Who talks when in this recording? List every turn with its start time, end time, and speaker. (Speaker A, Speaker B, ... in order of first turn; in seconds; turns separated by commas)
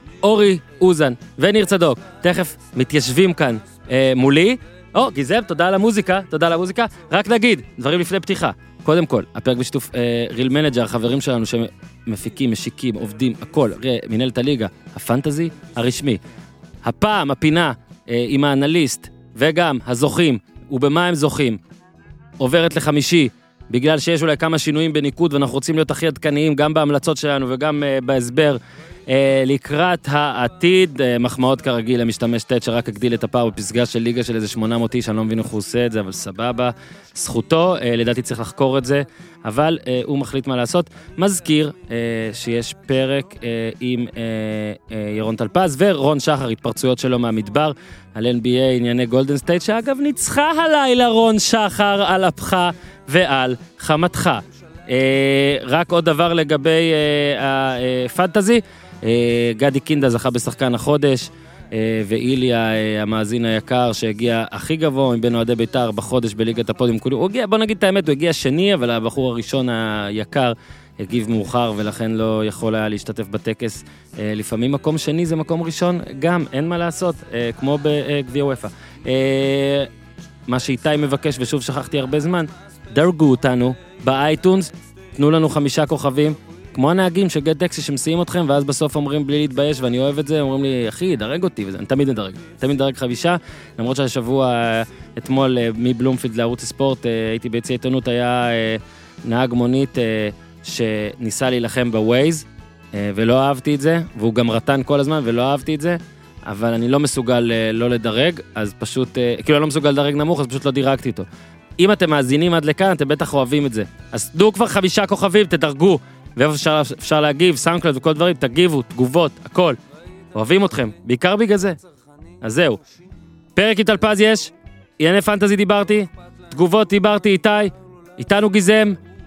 Speaker A: 0.2-16.2, Speaker A: 16.8-21.6, Speaker A: 22.4-79.9, Speaker A: 80.5-111.2, Speaker A: 111.8-119.8, Speaker A: 120.3-121.8, Speaker A: 122.4-122.8, Speaker A: 123.5-129.0